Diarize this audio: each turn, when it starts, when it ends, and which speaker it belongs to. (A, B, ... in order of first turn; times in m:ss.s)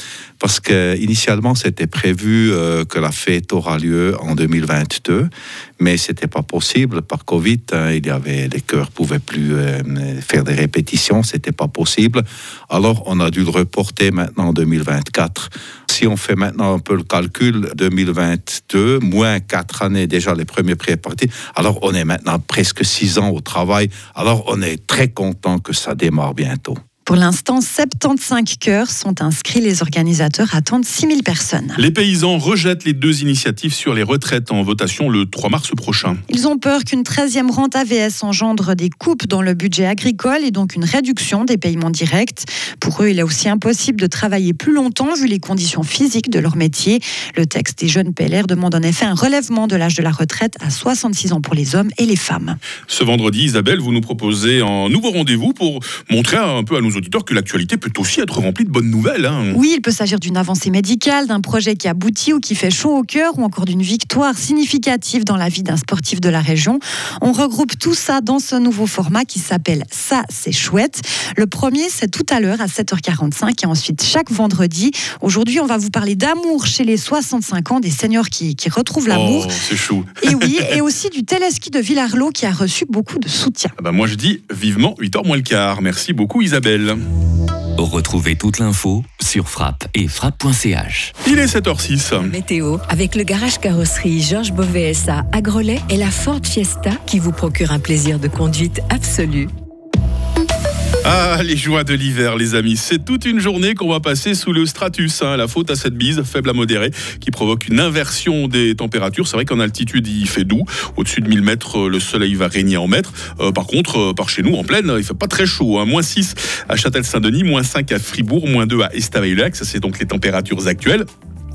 0:00.4-0:26.8 A
0:27.0-0:31.8 B
0:31.8-0:36.2 C
0:36.3-0:52.6 B
0:52.9-0:59.6 C
0:59.5-1:19.5 B
1:19.1-1:20.7 C
1:20.2-1:23.8 B
1:23.8-1:27.0 C
1:27.8-1:31.1 D
1:31.2-1:32.3 C
1:32.3-1:39.5 E
1:41.0-2:01.1 C